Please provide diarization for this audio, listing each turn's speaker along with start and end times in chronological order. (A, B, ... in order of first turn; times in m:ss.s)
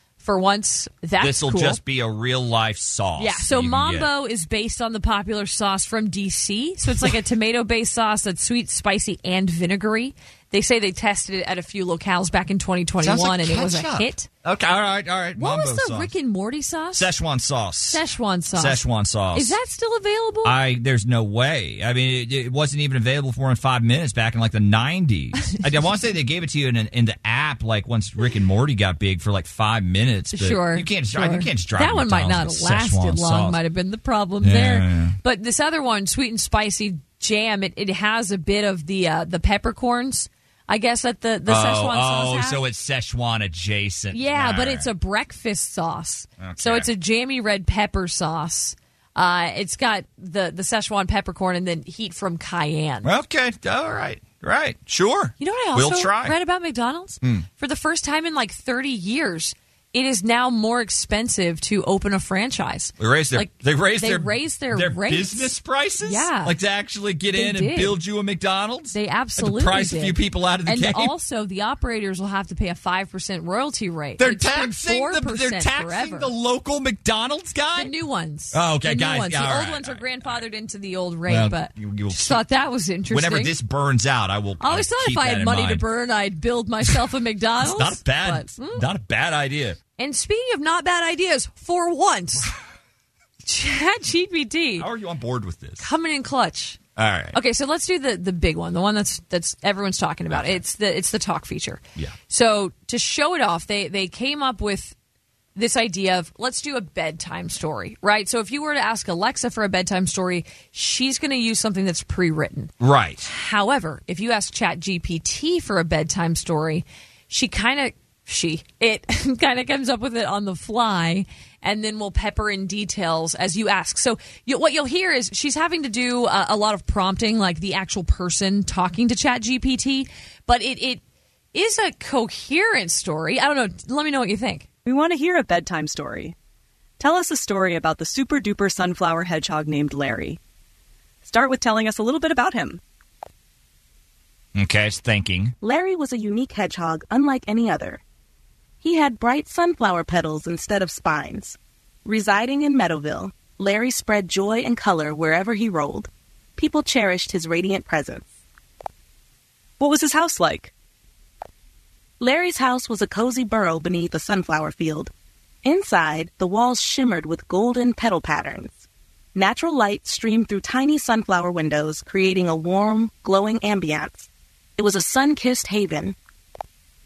0:00.2-0:01.8 A
0:01.2-0:04.1 B
0:03.2-0:14.3 A
0:13.0-0:16.1 B
0:15.4-0:17.1 A
0:16.9-0:19.6 B
0:17.9-0:18.8 A
0:19.3-0:20.5 A
0:20.4-0:33.6 B
0:30.3-0:42.6 A
0:34.4-0:35.2 B
0:41.4-0:44.9 B
0:44.1-0:53.1 A
0:46.4-0:46.9 B
0:53.0-0:56.3 B
0:55.4-1:05.5 A
0:57.2-0:57.5 B
1:03.0-1:11.1 B
1:06.0-1:06.5 A
1:07.3-1:07.9 A
1:08.9-1:16.3 A
1:14.2-1:17.9 B
1:17.7-1:23.5 A
1:18.5-1:20.4 B
1:21.3-1:22.4 B
1:23.1-1:25.8 B
1:24.6-1:28.8 A
1:27.6-1:29.8 B
1:30.0-1:32.5 A
1:33.4-1:34.9 A
1:34.8-1:35.9 B
1:35.8-1:36.8 A
1:37.0-1:37.4 B
1:37.3-1:44.9 A
1:40.3-1:40.6 B
1:45.6-1:52.7 A
1:52.8-1:53.3 B
1:53.2-2:11.0 A
2:11.5-2:14.6 A
2:14.8-2:16.3 C
2:17.0-2:20.4 C
2:21.2-2:22.8 C
2:24.5-2:25.5 B
2:25.6-2:28.0 D
2:28.8-2:38.3 D
2:39.8-2:40.7 C
2:42.2-2:45.1 D
2:45.6-2:48.8 D
2:49.3-2:54.3 D
2:54.8-2:56.1 D